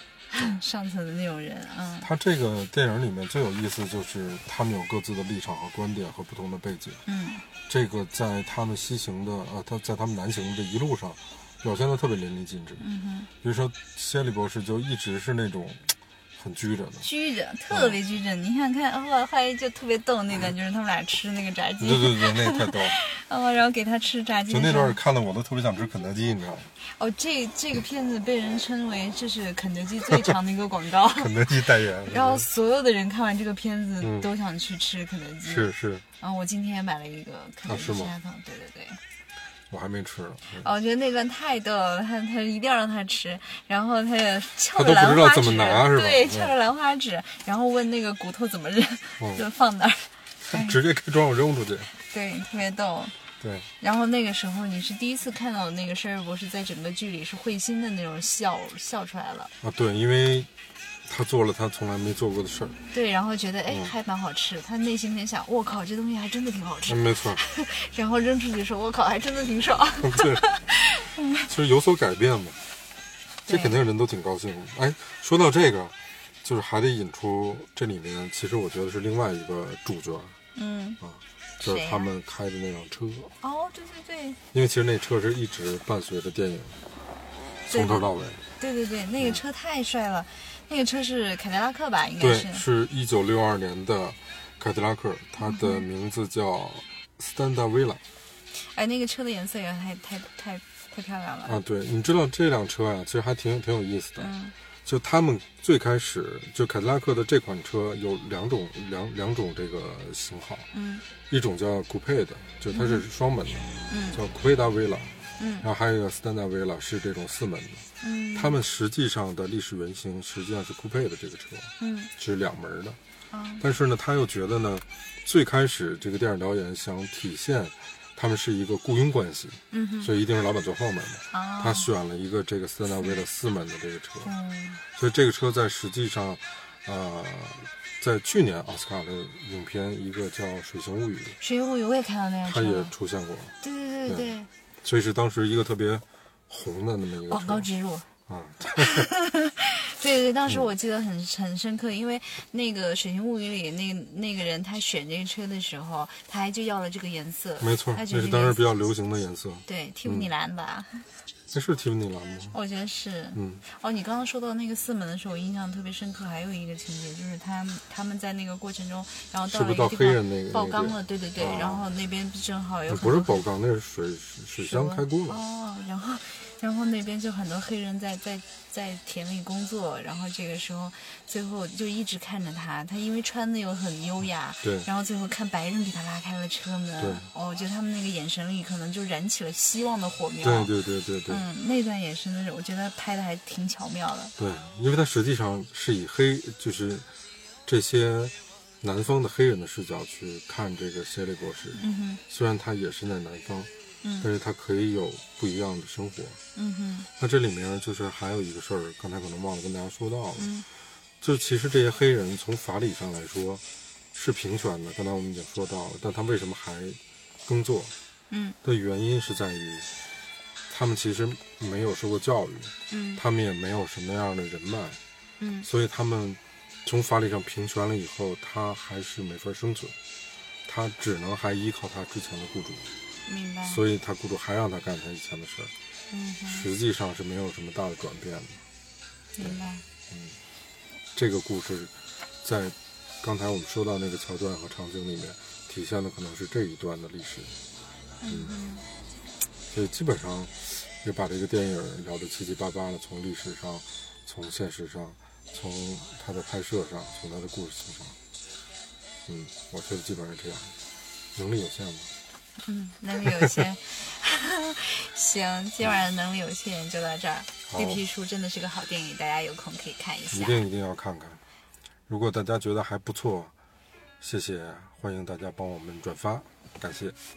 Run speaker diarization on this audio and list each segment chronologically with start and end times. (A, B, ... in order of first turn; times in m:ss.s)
0:00.3-0:02.1 A
0:02.0-0:07.0 B
0:07.1-0:07.4 A
0:07.7-0:12.8 B
0:12.8-0:13.3 A
0:13.4-0:17.1 B
0:17.0-0:25.0 A
0:17.7-0:18.0 B
0:21.8-0:23.0 B
0:24.5-0:26.7 B
0:26.8-0:39.0 A
0:31.2-0:32.5 B
0:34.0-0:34.3 B
0:35.4-0:36.0 B
0:37.7-0:38.1 B
0:39.7-0:40.7 B
0:40.6-0:50.8 A
0:44.7-0:46.6 B
0:49.2-0:49.4 B
0:50.5-0:51.9 B
0:52.0-0:53.2 A
0:53.4-0:53.7 B
0:53.8-0:59.5 A
0:59.6-1:00.5 B
1:01.1-1:02.8 B
1:02.9-1:11.4 A
1:06.9-1:07.4 B
1:10.0-1:10.4 B
1:11.4-1:12.6 B
1:13.5-1:13.8 A
1:13.5-1:20.4 B
1:20.6-1:21.0 A
1:21.0-1:23.3 B
1:21.6-1:22.1 A
1:23.4-1:24.4 A
1:24.5-1:26.8 B
1:27.7-1:28.1 A
1:27.7-1:28.4 B
1:28.6-1:32.6 A
1:32.2-1:38.0 B
1:35.4-1:35.8 A
1:38.5-1:41.6 A
1:41.5-1:44.3 B
1:44.2-1:44.6 A
1:44.8-1:50.7 B
1:50.7-1:51.0 A
1:51.3-2:03.0 B
1:52.7-1:53.0 A
1:53.9-1:54.2 A
1:55.4-1:55.7 A
1:58.0-1:58.6 A
2:01.8-2:02.1 A
2:03.3-2:03.6 A
2:03.6-2:14.3 B
2:09.7-2:10.1 A
2:11.3-2:11.9 A
2:14.2-2:14.8 A
2:14.9-2:21.4 B
2:21.4-2:22.9 A
2:22.4-2:23.6 B
2:23.6-2:24.5 A
2:24.1-2:24.3 B
2:24.8-2:27.7 B
2:27.3-2:28.1 A
2:28.3-2:29.1 B
2:28.7-2:38.6 A
2:37.6-2:40.3 B
2:39.7-2:41.2 A
2:41.5-2:42.6 B
2:42.5-2:53.4 A
2:43.4-2:43.6 B
2:49.5-2:51.9 B
2:52.9-2:55.4 B
2:54.6-3:10.7 A
3:04.6-3:04.9 B
3:07.0-3:07.3 B
3:10.4-3:11.5 B
3:11.3-3:14.3 A
3:14.4-3:17.1 B
3:17.7-3:23.7 B
3:21.8-3:22.2 A
3:24.2-3:26.4 B
3:26.6-3:27.1 A
3:27.2-3:30.5 B
3:30.4-3:30.7 A
3:31.2-3:33.6 B
3:34.1-3:37.9 B
3:38.3-3:38.6 A
3:38.6-3:39.9 B
3:40.7-3:45.0 B
3:42.9-3:43.2 A
3:45.4-3:45.7 A
3:45.6-3:50.0 B
3:50.7-3:52.9 B
3:53.3-3:53.8 A
3:53.7-3:55.7 B
3:56.1-3:56.7 A
3:56.5-3:58.6 B
3:59.4-3:59.8 A
3:59.4-4:00.4 B
4:01.1-4:01.9 B
4:02.4-4:07.5 B
4:08.2-4:08.8 A
4:08.3-4:08.5 B
4:09.7-4:18.2 B
4:19.3-4:20.7 B
4:21.4-4:22.1 B
4:22.6-4:30.6 A
4:27.7-4:28.0 B
4:30.3-4:31.4 B
4:32.1-4:33.5 B
4:34.2-4:37.2 B